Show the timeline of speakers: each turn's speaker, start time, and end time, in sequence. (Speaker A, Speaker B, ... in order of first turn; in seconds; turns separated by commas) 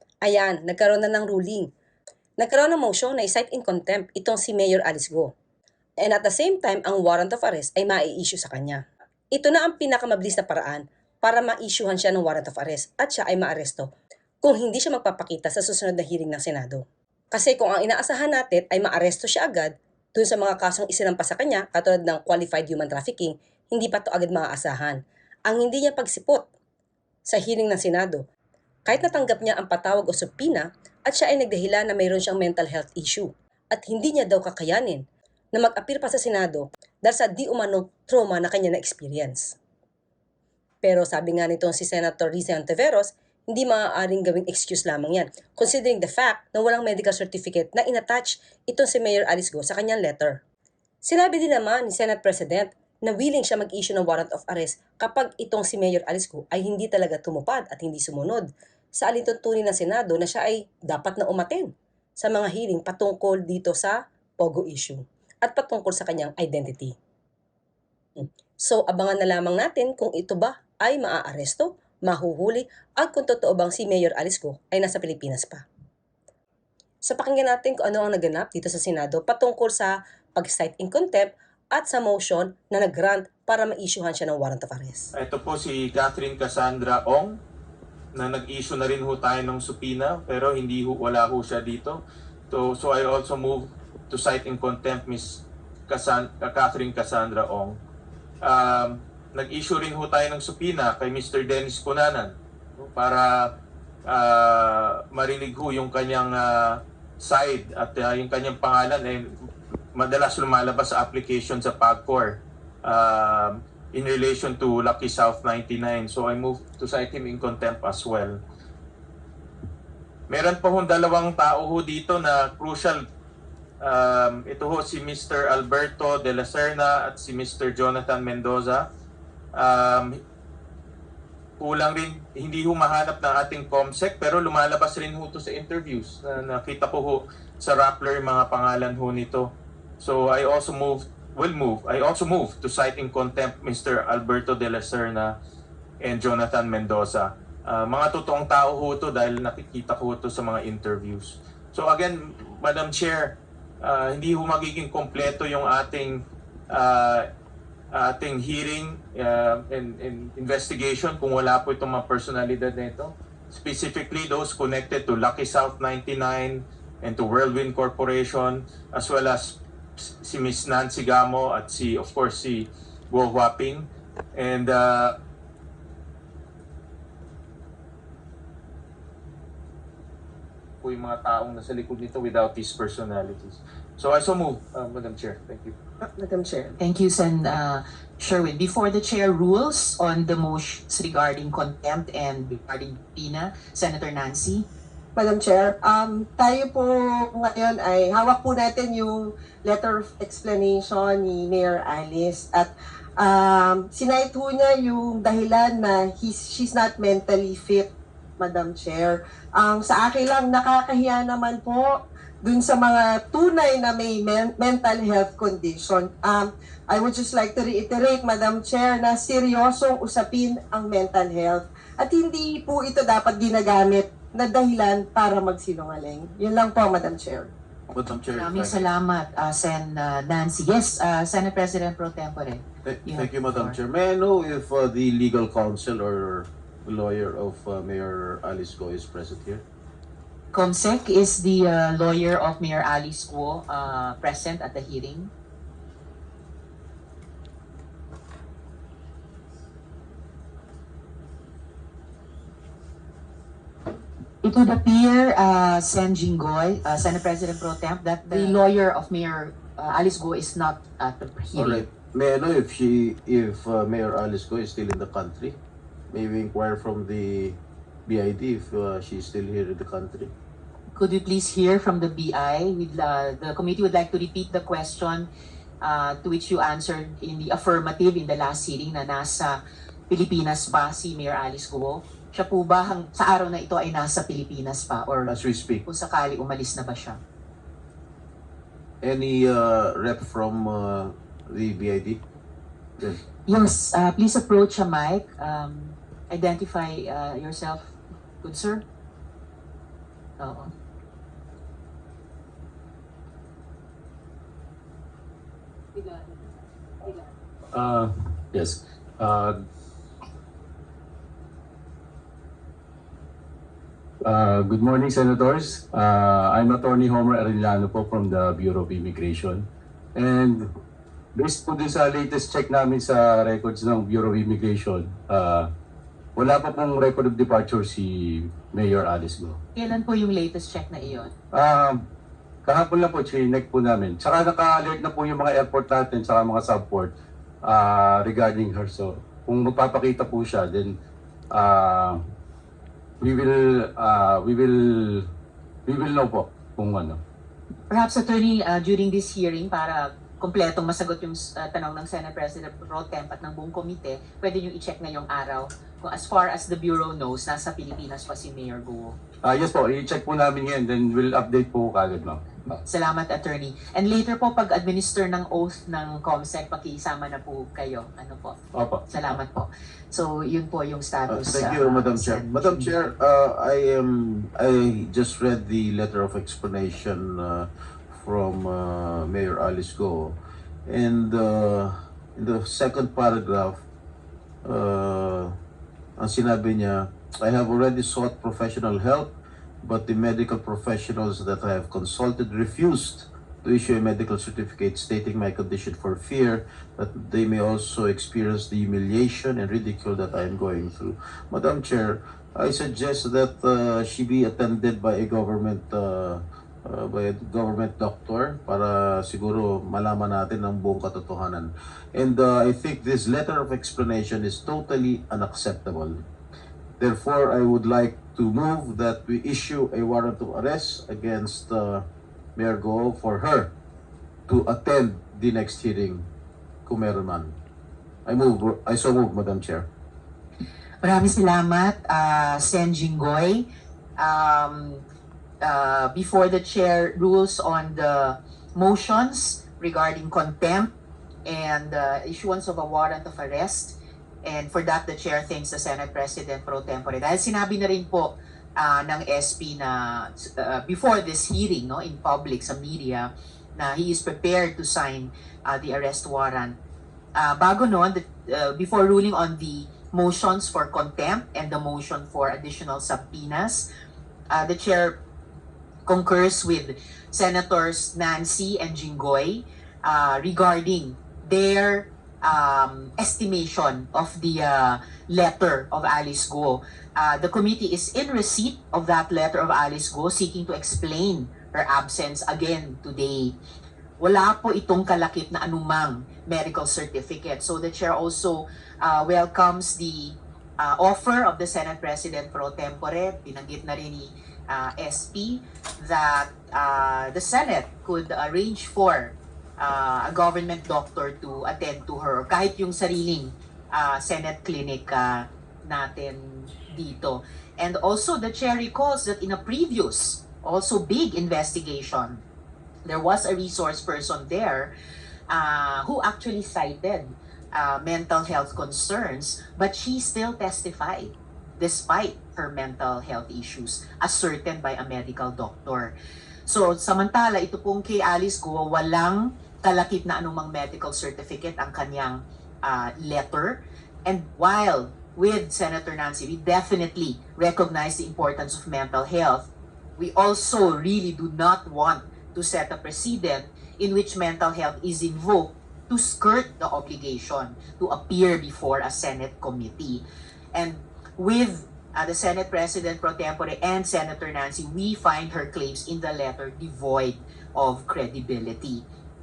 Speaker A: 0.2-1.7, Speaker A: 2.4-5.3, Speaker A: 6.0-26.5, Speaker A: 27.2-28.2, Speaker A: 28.8-39.5, Speaker A: 40.8-50.4, Speaker A: 51.0-67.0, Speaker A: 68.2-75.6, Speaker A: 77.0-85.1, Speaker B: 85.1-87.4, Speaker B: 88.1-97.8, Speaker B: 98.4-103.5, Speaker B: 104.1-109.2, Speaker B: 109.9-118.4, Speaker B: 120.3-123.0, Speaker B: 123.8-128.8, Speaker B: 129.6-130.1, Speaker B: 131.6-139.5, Speaker B: 140.0-145.3, Speaker B: 146.0-156.2, Speaker B: 156.7-157.2, Speaker B: 157.9-175.1, Speaker B: 180.8-185.7, Speaker C: 186.0-186.7, Speaker D: 186.8-194.7, Speaker C: 195.2-227.5, Speaker E: 227.9-228.8, Speaker D: 228.3-233.8, Speaker E: 232.8-239.6, Speaker D: 240.5-245.3, Speaker D: 254.4-261.8, Speaker E: 261.6-265.6, Speaker E: 266.1-270.3, Speaker D: 270.9-275.3, Speaker D: 275.8-285.3, Speaker E: 285.3-285.8, Speaker D: 285.8-287.2, Speaker E: 289.0-292.2, Speaker D: 293.4-298.8, Speaker D: 300.4-300.7, Speaker F: 307.7-309.5, Speaker F: 314.2-320.7, Speaker F: 321.3-325.7, Speaker F: 326.4-329.6, Speaker D: 329.7-331.3, Speaker F: 331.5-332.0, Speaker F: 332.6-337.1, Speaker F: 337.6-340.9, Speaker F: 341.5-342.2, Speaker F: 343.2-345.2, Speaker F: 345.9-347.2, Speaker D: 347.9-359.1, Speaker F: 359.4-362.8, Speaker D: 362.9-368.6, Speaker F: 368.7-369.0, Speaker D: 369.1-372.9, Speaker E: 371.3-383.8, Speaker E: 384.6-385.5, Speaker E: 386.2-416.2, Speaker E: 417.0-422.0, Speaker E: 422.6-423.7, Speaker E: 424.5-426.3, Speaker E: 426.9-427.6, Speaker E: 428.2-429.9, Speaker D: 431.0-433.6, Speaker D: 434.2-435.0, Speaker D: 435.6-440.9, Speaker D: 441.4-456.7, Speaker D: 457.4-463.9, Speaker D: 464.5-465.2, Speaker D: 466.1-483.5, Speaker D: 484.2-512.4, Speaker D: 513.0-514.9, Speaker D: 515.5-526.1, Speaker D: 526.7-559.0